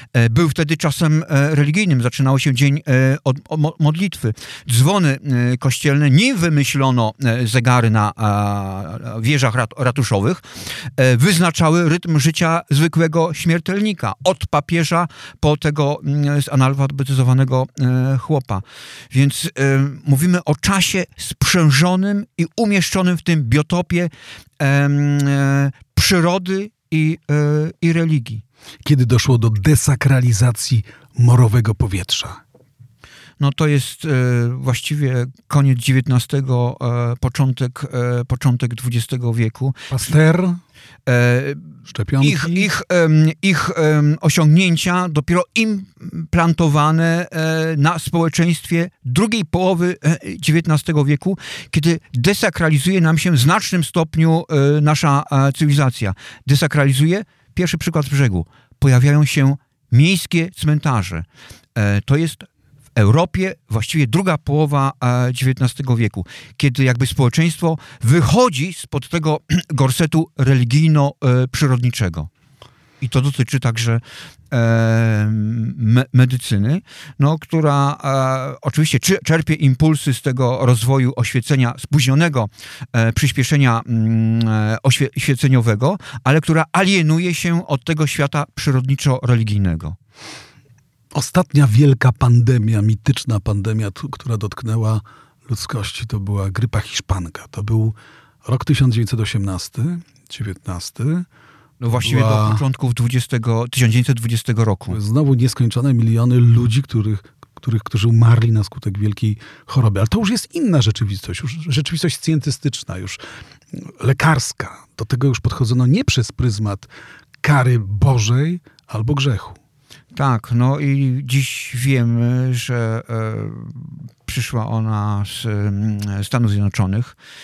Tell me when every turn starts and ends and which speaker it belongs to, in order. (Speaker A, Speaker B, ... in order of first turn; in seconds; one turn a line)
Speaker A: 0.1-28.4
Speaker B: 28.8-32.4
Speaker A: 33.4-40.1
Speaker B: 39.9-40.6
Speaker A: 41.1-72.3
Speaker B: 41.9-42.7
Speaker A: 73.0-90.0
Speaker B: 91.1-101.3
Speaker A: 101.8-105.0
Speaker B: 101.9-102.6
Speaker B: 104.9-113.2
Speaker B: 113.7-116.9
Speaker B: 117.4-119.6
Speaker A: 120.1-127.2